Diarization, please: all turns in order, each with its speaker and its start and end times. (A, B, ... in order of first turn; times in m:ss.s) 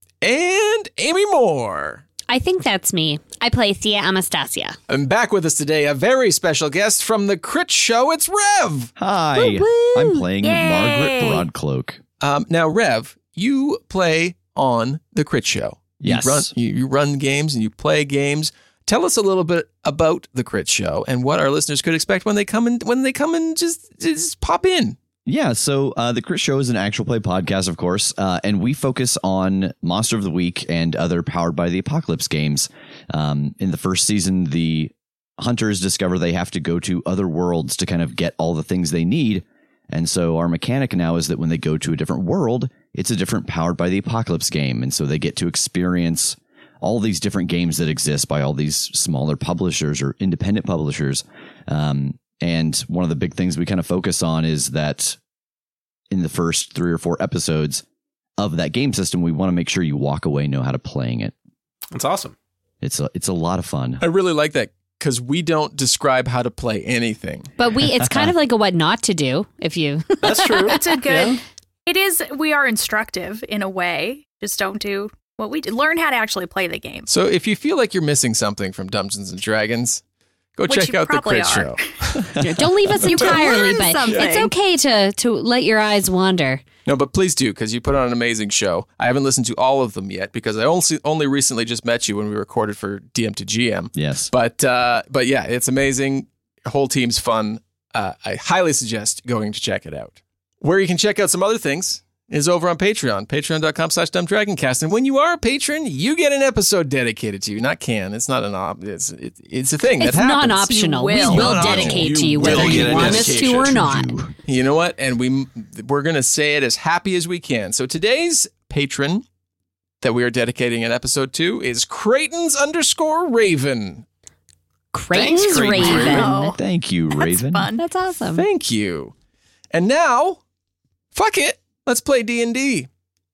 0:00.2-0:02.0 A
0:02.3-0:04.8 B
0:04.9-0:08.9 A
0:09.0-0:12.0 C
0:09.4-0:10.2 B
0:10.4-0:11.5 D
0:12.2-0:25.0 A
0:16.0-0:16.5 C
0:25.2-0:55.2 C
0:56.1-0:57.8 C
0:58.4-1:01.3 C
1:01.9-1:02.4 E
1:02.8-1:04.0 C
1:04.0-1:07.5 A
1:07.6-1:10.7 B
1:10.2-1:11.4 E
1:10.5-1:17.1 D
1:17.1-1:20.0 A
1:20.6-1:22.2 A
1:20.6-1:21.9 D
1:22.4-1:26.6 B
1:23.0-1:24.5 D
1:23.1-1:23.5 A
1:26.8-1:53.2 A
1:33.9-1:34.3 C
1:50.0-1:54.1 B
1:50.5-1:51.7 D
1:51.7-1:53.8 E
1:52.4-1:54.3 C
1:54.4-1:59.2 A
2:00.0-2:04.0 A
2:04.9-2:06.3 B
2:05.1-2:06.1 E
2:05.6-2:06.6 D
2:05.8-2:06.2 A
2:06.0-2:07.7 C
2:07.1-2:07.8 D
2:07.8-2:08.4 B
2:08.2-2:09.1 A
2:09.7-2:10.4 A
2:11.1-2:12.9 A